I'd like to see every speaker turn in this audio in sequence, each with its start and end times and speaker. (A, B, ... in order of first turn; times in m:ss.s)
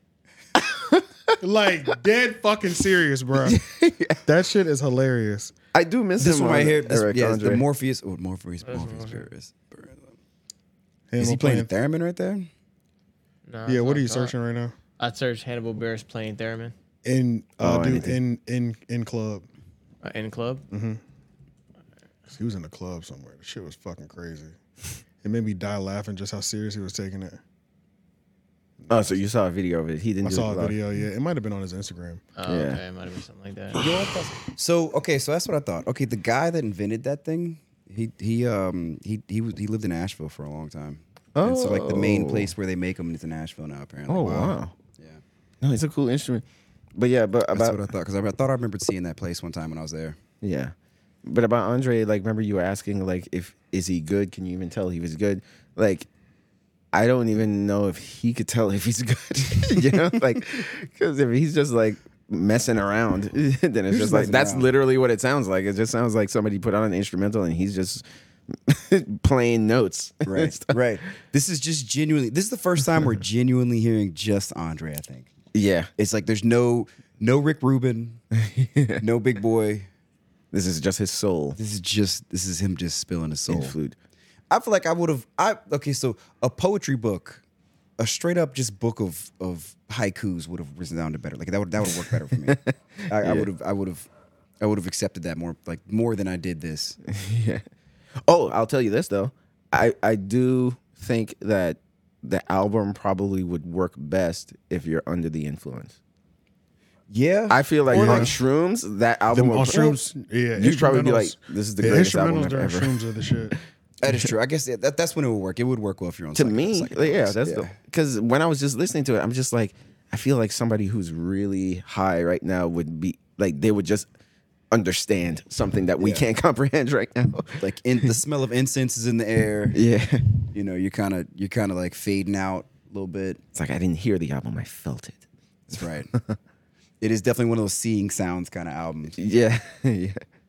0:00.6-0:01.3 A
0:01.4-0:03.6 B
0:03.4-0:04.2 A
0:04.2-0:05.5 B
0:05.7-0:07.6 A
0:06.2-0:10.1 C
0:08.6-0:09.2 D
0:11.1-0:11.7 B
0:11.2-0:12.5 C
0:13.5-0:14.3 D
0:13.6-0:14.7 B
0:15.0-0:16.7 D
0:17.0-0:19.4 B
0:17.6-0:18.2 A
0:20.0-0:20.6 D
0:20.7-0:21.0 B
0:22.3-0:24.6 B
0:25.2-0:27.4 B
0:28.8-0:29.2 B
0:28.9-0:30.8 A
0:30.2-0:32.2 B
0:32.4-0:33.9 D
0:32.4-0:32.8 A
0:34.5-0:45.2 C
0:41.3-0:42.5 A
0:44.1-0:44.7 A
0:45.6-0:47.8 A
0:47.5-0:50.2 C
0:50.4-0:50.7 A
0:51.2-0:56.1 A
0:56.9-1:10.8 A
0:59.7-1:00.1 C
1:03.9-1:04.7 C
1:10.2-1:15.3 C
1:15.5-1:15.9 A
1:16.0-1:18.2 C
1:18.3-1:19.0 A
1:19.0-1:19.9 C
1:20.5-1:21.6 A
1:21.6-1:23.8 C
1:23.5-1:24.0 A
1:24.5-1:27.4 C
1:28.0-1:34.1 C
1:32.4-1:33.5 A
1:34.6-1:37.0 C
1:37.1-1:37.6 A
1:38.2-1:45.9 A
1:47.1-1:48.3 C
1:47.5-1:50.0 A
1:47.9-1:48.3 B
1:49.3-1:53.6 B
1:50.5-1:53.0 A
1:54.0-1:57.8 C
1:56.3-2:04.1 A
2:04.7-2:08.0 A
2:06.0-2:06.2 C
2:07.6-2:09.8 C
2:09.7-2:10.2 A
2:10.5-2:13.4 C
2:13.5-2:15.2 A
2:15.7-2:16.1 C
2:17.0-2:19.2 C
2:19.2-2:20.2 A